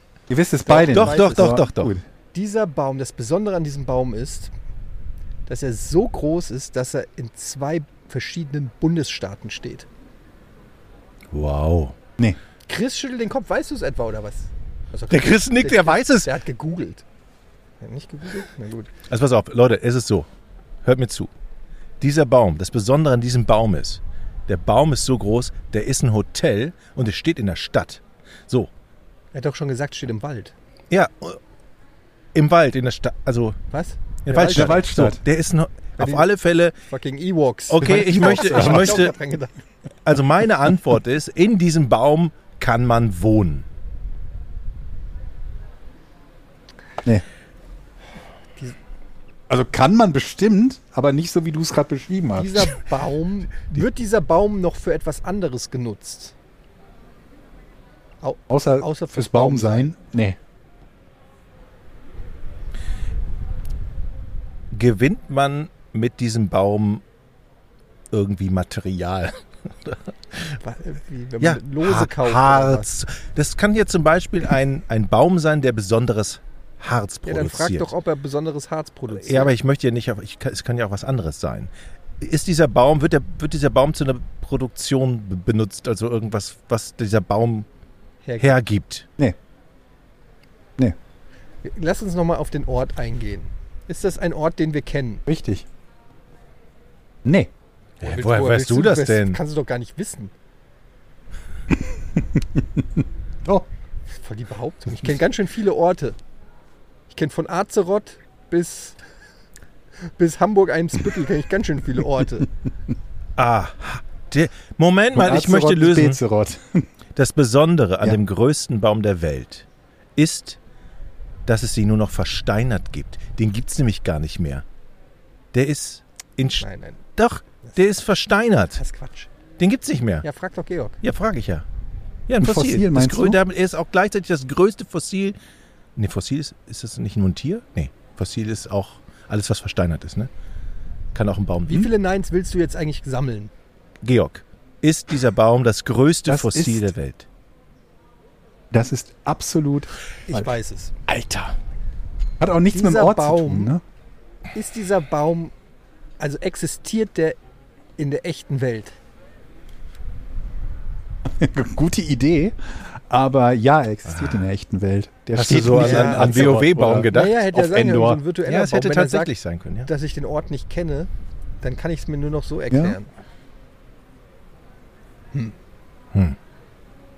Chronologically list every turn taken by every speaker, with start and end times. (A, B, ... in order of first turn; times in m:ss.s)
0:00.3-0:02.0 A
0:00.7-0:01.6 B
0:00.7-0:02.0 C
0:02.3-0:04.5 B
0:05.5-0:09.9 B
0:11.3-0:12.0 C
0:12.7-0:17.0 B
0:15.1-0:16.3 C
0:17.8-0:18.9 B
0:19.1-0:20.3 C
0:20.8-0:21.3 C
0:22.0-0:28.7 C
0:29.3-0:30.6 B
0:30.9-0:31.4 C
0:32.3-0:33.6 C
0:33.7-0:34.8 B
0:34.2-0:36.8 C
0:34.4-0:35.2 A
0:36.0-0:36.2 B
0:36.9-0:39.6 B
0:37.7-0:39.2 C
0:37.8-0:39.0 A
0:40.0-0:43.7 C
0:49.5-0:52.7 A
0:52.3-0:56.3 B
0:58.2-0:59.9 B
0:58.5-1:00.4 A
1:04.7-1:07.0 C
1:08.1-1:10.6 C
1:10.6-1:12.9 B
1:11.4-1:17.9 C
1:17.3-1:19.6 B
1:19.1-1:27.7 C
1:28.2-1:28.5 B
1:28.4-1:29.1 C
1:31.6-1:35.2 B
1:35.3-1:35.6 A
1:37.2-1:37.5 A
1:38.0-1:39.4 C
1:38.0-1:40.3 B
1:42.0-1:42.6 A
1:44.2-1:46.2 B
1:47.1-1:49.0 B
1:50.2-1:52.5 B
1:53.4-1:56.2 C
1:55.2-1:56.9 A
1:57.2-2:00.6 C
2:01.5-2:04.6 C
2:05.5-2:08.8 C
2:06.6-2:07.0 B
2:08.8-2:09.3 B
2:09.6-2:10.2 C
2:10.2-2:11.0 B
2:11.0-2:11.7 C
2:12.3-2:15.4 C
2:12.4-2:13.4 A
2:16.0-2:20.3 C
2:21.1-2:21.9 C
2:21.7-2:23.5 B
2:24.0-2:27.3 C
2:26.3-2:26.9 A
2:28.7-2:30.5 A
2:30.3-2:30.9 B
2:31.1-2:31.6 C
2:32.4-2:33.8 A
2:32.7-2:33.7 B
2:34.5-2:35.5 B
2:36.2-2:37.4 B
2:38.0-2:39.0 B
2:41.4-2:48.2 A
2:44.1-2:44.5 C
2:45.4-2:49.9 C
2:45.7-2:49.3 B
2:49.9-2:51.1 B
2:51.6-2:53.1 B
2:52.7-2:53.0 A